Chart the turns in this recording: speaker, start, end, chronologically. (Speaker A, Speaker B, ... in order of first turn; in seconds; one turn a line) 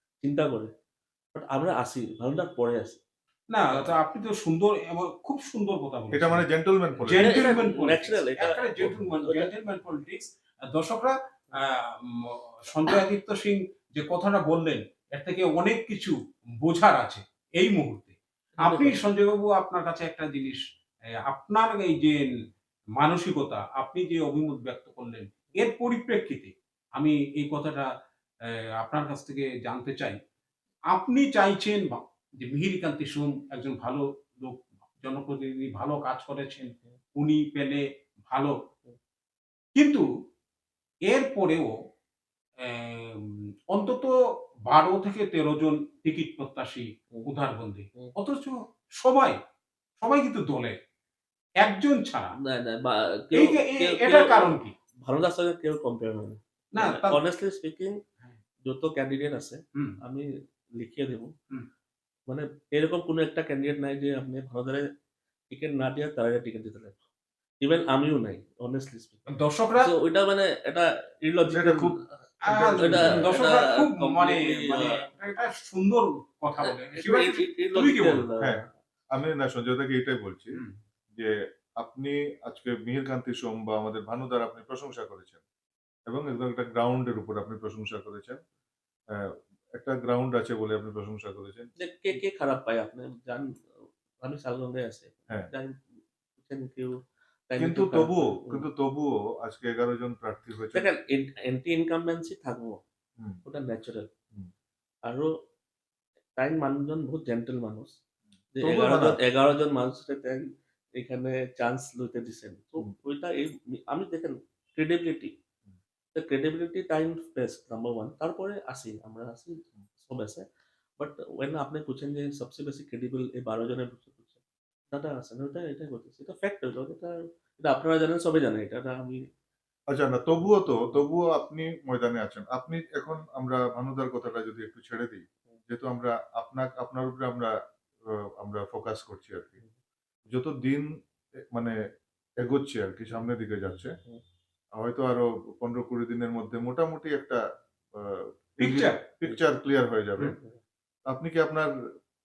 Speaker A: 0.2-0.7
Speaker A: 1.3-3.0
Speaker B: 3.5-6.5
Speaker C: 6.1-7.5
Speaker B: 7.0-22.3
Speaker A: 7.1-9.5
Speaker C: 8.8-9.0
Speaker A: 18.6-19.0
Speaker B: 23.0-27.9
Speaker B: 28.4-30.2
Speaker B: 30.9-38.6
Speaker B: 39.8-40.0
Speaker B: 41.1-41.8
Speaker B: 42.6-44.1
Speaker B: 44.7-49.4
Speaker B: 50.0-50.8
Speaker B: 51.6-52.4
Speaker A: 52.4-58.0
Speaker B: 53.3-54.7
Speaker B: 56.8-57.2
Speaker A: 58.6-61.3
Speaker A: 62.3-64.9
Speaker A: 65.5-67.0
Speaker A: 67.6-75.1
Speaker B: 69.3-69.9
Speaker C: 71.5-73.4
Speaker B: 72.5-78.3
Speaker A: 76.6-78.7
Speaker C: 78.4-85.4
Speaker C: 86.1-88.4
Speaker C: 89.1-91.7
Speaker A: 91.8-98.7
Speaker C: 97.6-100.9
Speaker A: 100.7-102.8
Speaker A: 103.5-104.1
Speaker A: 105.1-105.4
Speaker A: 106.4-108.0
Speaker A: 108.5-115.3
Speaker C: 108.6-109.2
Speaker A: 116.1-120.4
Speaker A: 121.0-124.4
Speaker A: 124.9-129.2
Speaker C: 129.9-137.6
Speaker C: 138.1-139.6
Speaker C: 140.3-141.8
Speaker C: 142.4-144.0
Speaker C: 144.8-147.4
Speaker C: 147.9-150.4
Speaker B: 148.6-149.0
Speaker A: 150.3-150.6
Speaker C: 151.1-151.7